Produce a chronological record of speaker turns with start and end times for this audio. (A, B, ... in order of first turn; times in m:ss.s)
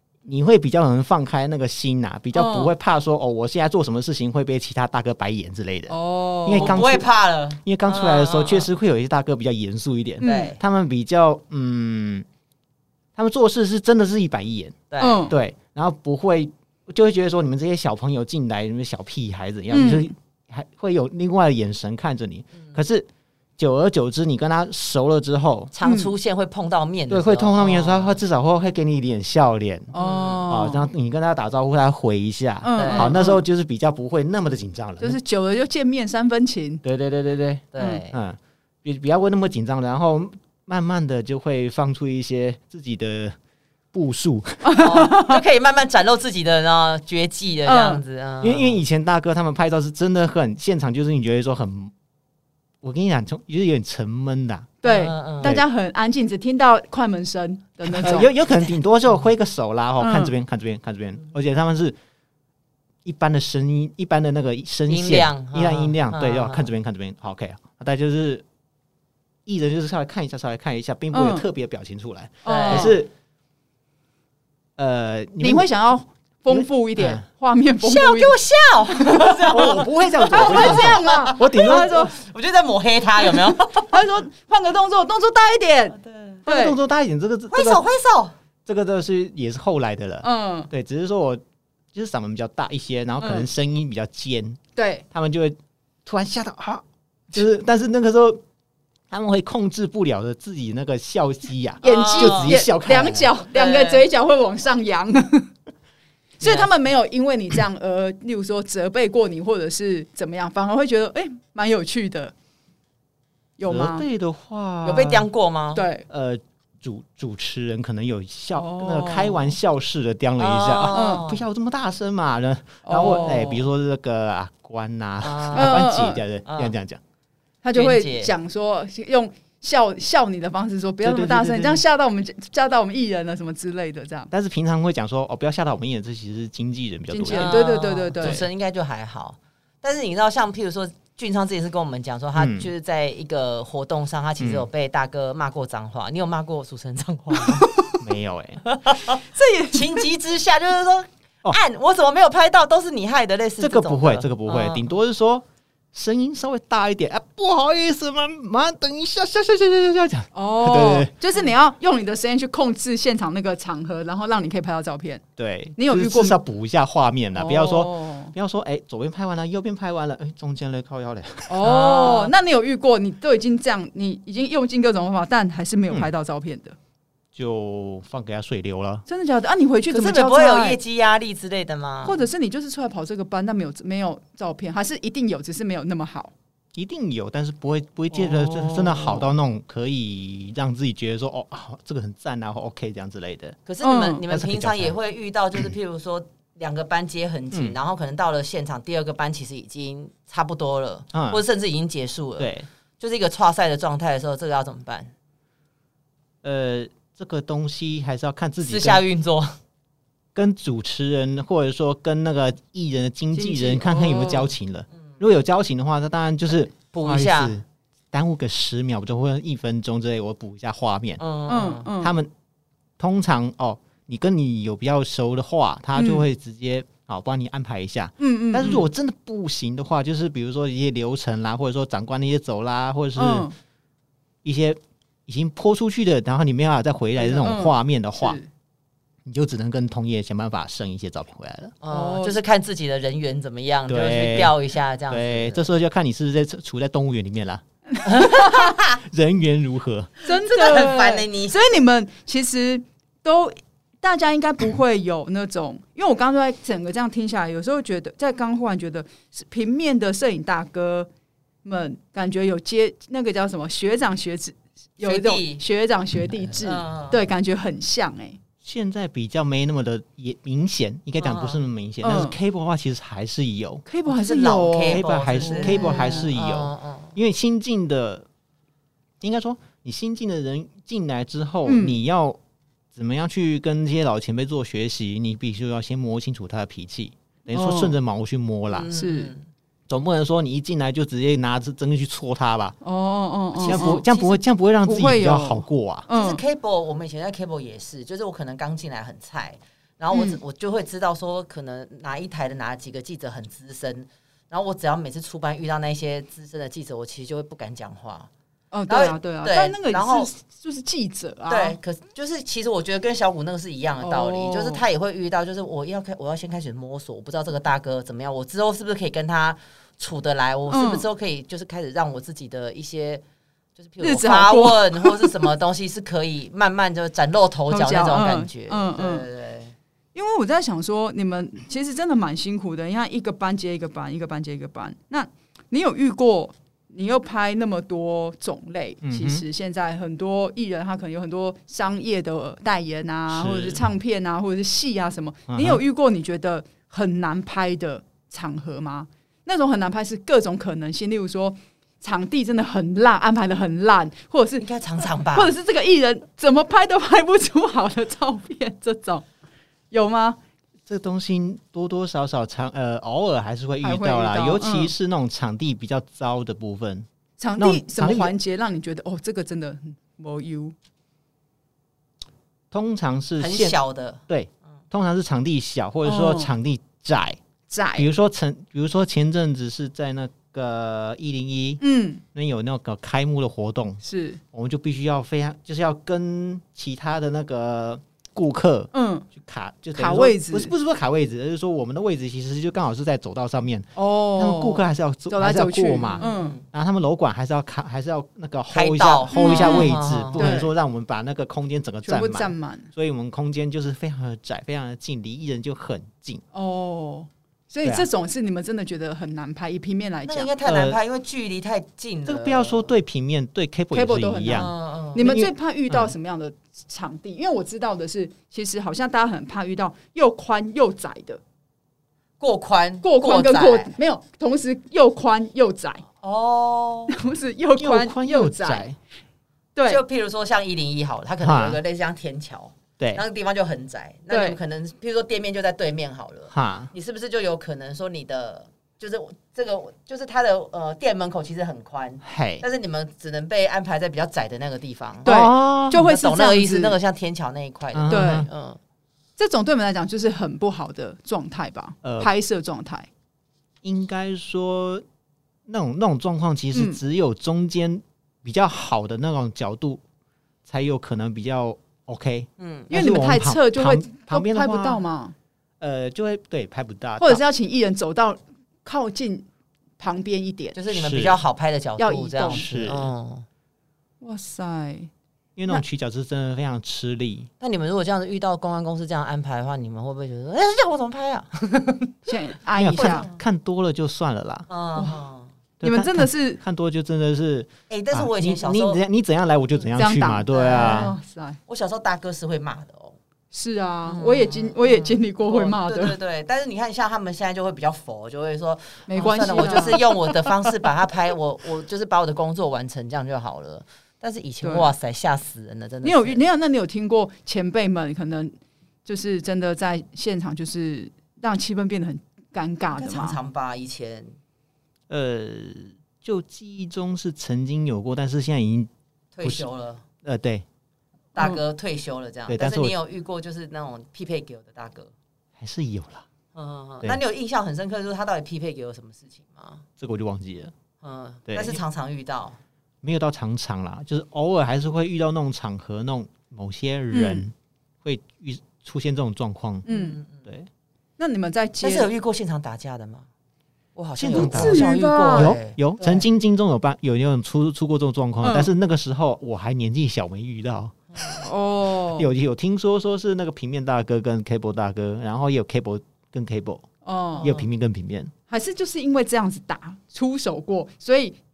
0:00.2-0:05.9 A
0:02.3-0:02.7 B
0:05.9-0:06.9 B
0:06.4-0:07.1 A
0:06.5-0:08.7 C
0:07.6-0:12.2 A
0:10.2-0:10.5 B
0:10.2-0:10.6 C
0:13.2-0:23.1 A
0:14.9-0:15.3 C
0:15.0-0:15.3 B
0:19.7-0:20.1 B
0:23.6-0:25.7 A
0:25.7-0:28.2 C
0:25.8-0:26.1 B
0:27.1-0:29.9 A
0:29.9-0:30.8 B
0:29.9-0:30.5 C
0:30.4-0:35.2 A
0:32.6-0:33.4 B
0:32.8-0:33.2 C
0:35.0-0:36.8 B
0:36.8-0:43.4 A
0:37.7-0:38.2 C
0:37.8-0:38.0 B
0:43.9-0:44.7 A
0:44.6-0:45.4 B
0:44.7-0:48.8 C
0:47.6-0:48.0 B
0:48.4-0:51.9 A
0:52.8-0:54.7 A
0:54.8-0:58.3 B
0:54.8-0:55.5 C
0:57.9-1:02.0 A
1:00.0-1:00.3 B
1:03.0-1:08.4 A
1:04.9-1:06.7 C
1:09.4-1:13.1 A
1:11.1-1:11.5 B
1:12.4-1:13.0 C
1:12.4-1:13.0 B
1:14.8-1:15.7 A
1:15.4-1:18.4 B
1:16.5-1:17.2 A
1:17.8-1:24.0 C
1:19.0-1:19.3 B
1:19.4-1:22.1 A
1:20.3-1:22.1 B
1:23.3-1:26.8 B
1:25.9-1:26.4 C
1:26.5-1:27.8 A
1:27.5-1:28.3 C
1:28.6-1:31.4 A
1:30.2-1:30.7 B
1:31.9-1:34.6 A
1:33.2-1:33.5 B
1:34.8-1:35.0 B
1:35.1-1:38.4 A
1:39.1-1:43.3 A
1:41.8-1:42.5 C
1:41.8-1:45.5 B
1:43.5-1:44.0 C
1:46.4-1:52.3 B
1:46.4-1:46.7 C
1:53.6-1:54.0 B
1:53.7-1:55.3 A
1:54.8-1:55.8 C
1:55.8-1:56.0 B
1:56.1-2:07.0 A
1:58.5-1:59.5 B
2:00.4-2:01.4 C
2:00.9-2:01.3 B
2:02.8-2:03.6 B
2:05.2-2:05.8 C
2:05.5-2:06.2 B
2:06.4-2:06.8 C
2:07.6-2:14.3 B
2:07.7-2:08.3 C
2:11.0-2:11.8 A
2:14.3-2:17.6 A
2:17.1-2:18.4 B
2:17.3-2:27.7 C
2:22.4-2:22.7 A
2:24.4-2:24.7 A
2:27.6-2:27.9 B
2:28.0-2:28.6 A
2:28.6-2:34.8 C
2:29.2-2:30.0 B
2:33.6-2:41.1 A
2:40.3-2:45.2 B
2:45.4-2:51.6 A
2:45.8-2:46.4 B
2:47.3-2:48.3 B
2:51.5-2:56.8 B
2:51.6-2:52.3 C
2:57.3-2:59.0 A
2:59.1-3:00.8 B
2:59.9-3:02.2 C
3:02.0-3:06.3 B
3:06.8-3:13.6 A
3:08.1-3:09.3 B
3:13.6-3:25.1 C
3:13.8-3:14.2 B
3:14.3-3:15.0 A
3:17.5-3:17.8 A
3:21.1-3:21.4 A
3:22.4-3:22.7 A
3:26.4-3:29.0 A
3:28.6-3:29.6 C
3:30.3-3:41.2 A
3:33.3-3:34.5 B
3:36.9-3:37.6 C
3:41.2-3:41.9 C
3:41.5-3:42.1 B
3:42.0-3:42.3 A
3:43.0-3:53.5 A
3:46.0-3:46.2 B
3:48.2-3:48.9 B
3:53.2-3:53.5 B
3:54.4-3:58.4 A
3:57.2-3:58.5 B
3:59.2-4:01.8 A
4:01.8-4:05.6 C
4:01.9-4:02.4 B
4:03.9-4:04.6 A
4:05.1-4:07.6 A
4:08.0-4:08.8 B
4:08.0-4:09.0 C
4:08.9-4:10.1 A
4:10.2-4:21.1 B
4:10.2-4:11.6 C
4:21.6-4:28.4 B
4:25.0-4:25.6 C
4:26.6-4:27.2 C
4:28.6-4:33.8 A
4:31.2-4:31.6 C
4:32.0-4:32.4 B
4:33.9-4:36.3 B
4:34.0-4:37.2 C
4:34.8-4:38.2 A
4:39.2-4:42.4 A
4:41.6-4:42.0 B
4:42.9-4:48.9 A
4:47.5-4:48.0 B
4:48.7-4:49.5 C
4:48.9-4:49.3 B
4:49.9-4:52.8 A
4:52.8-4:54.0 B
4:53.6-4:54.4 C
4:53.6-4:56.1 A
4:54.8-4:56.4 B
4:56.1-5:08.3 C
5:00.1-5:00.4 B
5:08.7-5:11.8 B
5:08.9-5:10.3 C
5:11.5-5:23.2 C
5:14.0-5:14.8 B
5:20.7-5:21.0 B
5:23.8-5:29.8 C
5:24.0-5:25.5 B
5:27.7-5:29.2 B
5:30.1-5:54.6 B
5:39.0-5:39.4 A
5:43.3-5:43.8 A
5:45.5-5:45.8 A
5:54.6-5:55.5 C
5:55.3-5:59.2 B
5:59.9-6:00.4 B
6:00.9-6:08.3 A
6:03.8-6:04.9 B
6:07.4-6:10.7 B
6:12.7-6:13.8 A
6:13.4-6:14.2 C
6:14.3-6:17.4 A
6:16.0-6:16.5 B
6:17.7-6:18.1 B
6:18.0-6:21.8 A
6:21.8-6:22.2 B
6:22.3-6:24.0 A
6:24.0-6:24.4 B
6:24.5-6:46.4 A
6:28.9-6:29.3 B
6:30.0-6:30.7 B
6:34.0-6:36.6 B
6:36.1-6:36.6 C
6:38.7-6:40.5 C
6:39.3-6:40.7 B
6:42.0-6:42.9 B
6:46.5-6:50.5 B
6:50.2-6:53.0 C
6:50.6-6:51.0 A
6:52.2-6:56.1 A
6:53.9-7:01.4 B
6:54.5-6:55.4 C
7:02.4-7:03.9 C
7:03.0-7:06.0 B
7:06.2-7:07.2 C
7:07.1-7:08.9 B
7:07.8-7:09.0 A
7:09.8-7:10.0 B
7:09.8-7:25.3 C
7:11.4-7:11.8 A
7:14.3-7:14.6 B
7:16.5-7:16.9 A
7:22.2-7:22.6 A
7:25.2-7:26.0 A
7:25.2-7:27.0 B
7:26.0-7:28.8 C
7:27.9-7:28.5 A
7:28.1-7:28.5 B
7:29.4-7:33.1 B
7:32.0-7:32.3 A
7:33.8-7:35.0 A
7:35.7-7:40.0 A
7:36.7-7:37.0 B
7:40.6-7:45.0 A
7:42.6-7:42.9 C
7:42.9-7:45.3 B
7:45.8-7:47.4 A
7:47.2-7:49.4 B
7:50.0-7:50.8 B
7:50.7-7:53.5 C
7:50.9-7:51.4 A
7:52.0-7:52.8 B
7:52.5-7:53.1 A
7:54.2-7:55.1 B
7:55.6-7:57.5 A
7:57.6-8:02.3 C
8:02.3-8:03.3 B
8:02.8-8:04.7 A
8:02.9-8:03.4 C
8:04.7-8:05.5 C
8:05.0-8:05.2 B
8:05.8-8:11.2 A
8:05.8-8:06.6 B
8:07.9-8:09.0 C
8:10.0-8:11.6 B
8:10.5-8:11.1 C
8:11.7-8:13.2 C
8:13.5-8:16.2 B
8:14.0-8:26.4 C
8:19.1-8:20.5 B
8:24.6-8:24.9 B
8:26.0-8:28.5 B
8:29.0-8:33.4 B
8:32.9-8:34.3 C
8:35.1-8:38.9 A
8:39.3-8:40.0 C
8:40.2-8:40.6 A
8:41.3-8:45.1 C
8:42.5-8:42.9 A
8:45.6-8:46.2 A
8:46.5-8:49.8 C
8:50.0-8:50.7 A
8:51.0-8:52.6 C
8:51.5-8:51.8 A
8:53.0-8:59.8 A
8:57.1-8:57.4 B
8:59.8-9:00.2 B
8:59.9-9:00.4 C
9:01.2-9:02.1 B
9:01.8-9:03.3 C
9:04.0-9:06.2 C
9:04.2-9:11.0 A
9:04.3-9:05.6 B
9:08.4-9:08.7 B
9:11.4-9:12.3 B
9:12.1-9:16.8 A
9:17.0-9:17.5 B
9:17.4-9:17.6 C
9:17.4-9:18.3 A
9:18.5-9:21.4 B